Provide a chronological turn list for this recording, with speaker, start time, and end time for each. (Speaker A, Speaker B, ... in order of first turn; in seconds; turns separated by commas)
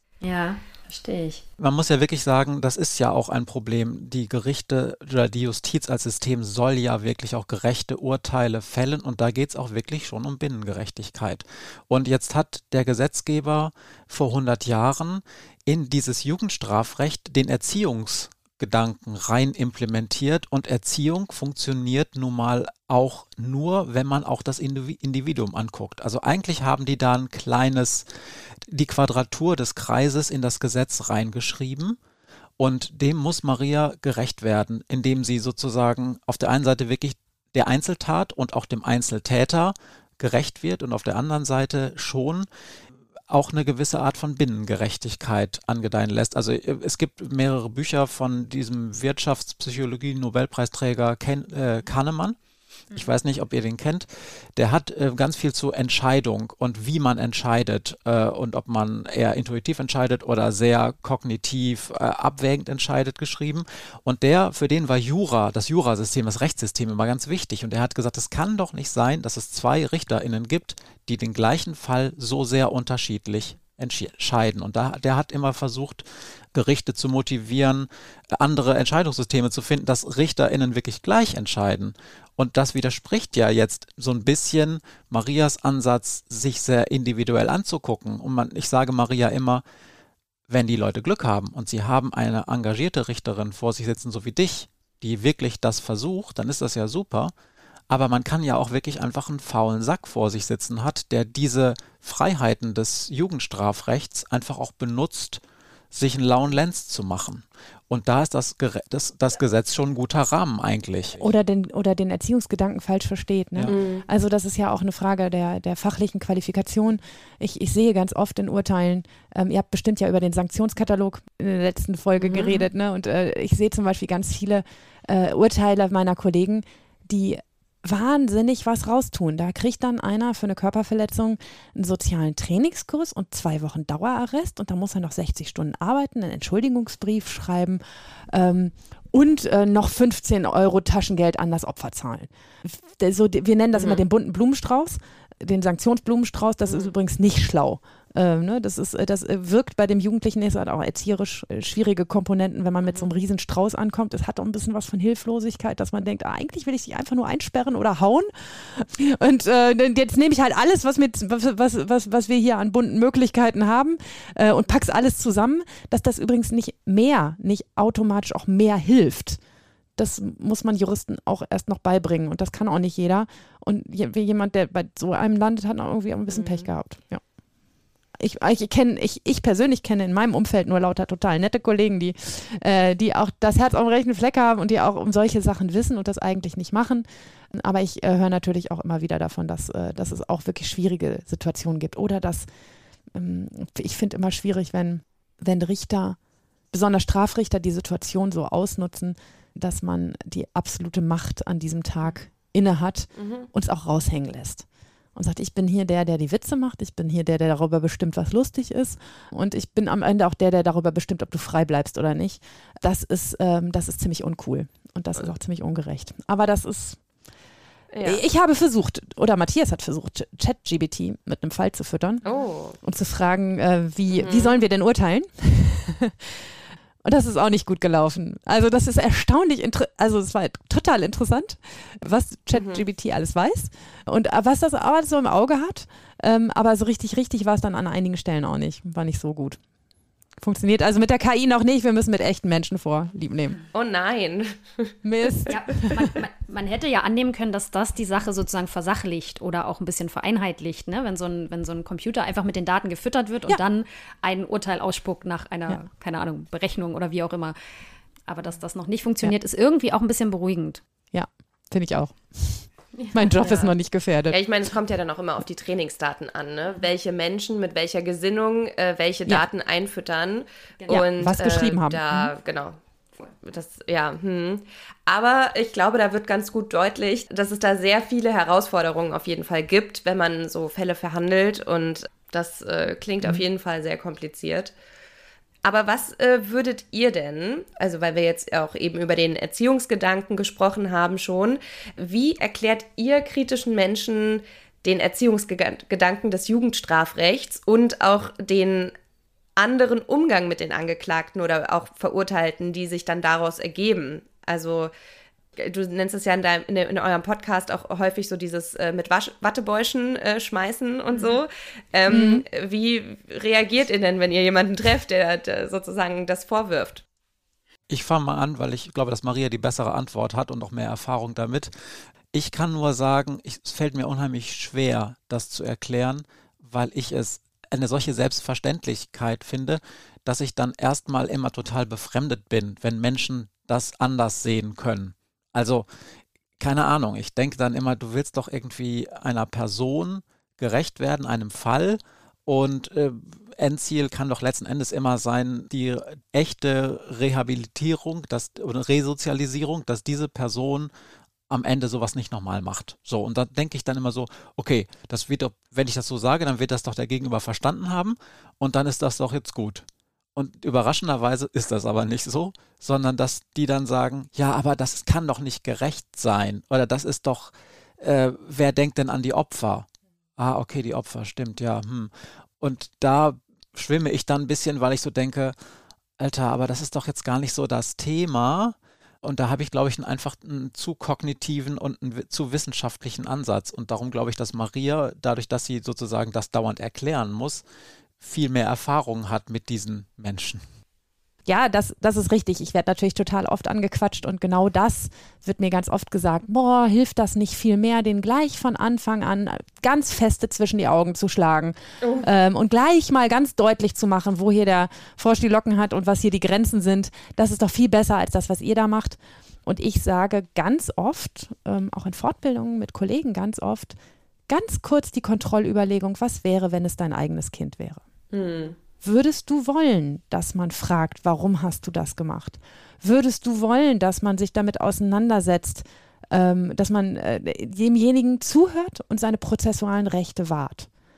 Speaker A: 0.2-1.4, Speaker B: 1.6-28.1, Speaker B: 28.7-32.0, Speaker B: 32.6-42.5, Speaker B: 43.3-52.4, Speaker B: 52.9-89.6, Speaker B: 90.5-97.3, Speaker B: 97.9-105.4, Speaker B: 105.9-111.2, Speaker C: 111.2-169.4, Speaker D: 113.7-114.0, Speaker D: 143.7-144.0, Speaker C: 170.0-177.2, Speaker D: 176.3-176.7, Speaker C: 178.2-192.5, Speaker C: 193.1-196.2, Speaker C: 196.7-217.0, Speaker D: 203.1-203.5, Speaker D: 217.9-218.2, Speaker C: 218.0-222.2, Speaker D: 222.2-222.8, Speaker C: 222.8-226.4, Speaker D: 224.1-224.5, Speaker C: 227.0-239.6, Speaker D: 232.5-232.8, Speaker C: 240.4-243.6, Speaker D: 243.7-244.9, Speaker C: 245.0-246.1, Speaker A: 245.5-257.6, Speaker A: 258.3-260.8, Speaker C: 261.1-264.4, Speaker A: 262.9-263.7, Speaker D: 264.3-272.8, Speaker C: 270.9-272.3, Speaker D: 273.3-284.7, Speaker D: 285.6-298.9, Speaker D: 299.6-304.9, Speaker D: 305.6-317.0, Speaker C: 312.1-312.4, Speaker B: 317.9-321.7, Speaker B: 322.3-335.9, Speaker B: 336.6-350.9, Speaker B: 351.5-375.5, Speaker B: 376.2-387.6, Speaker B: 388.2-390.6, Speaker C: 391.4-413.9, Speaker D: 402.0-402.2, Speaker C: 414.5-418.0, Speaker D: 418.3-418.8, Speaker C: 419.0-430.9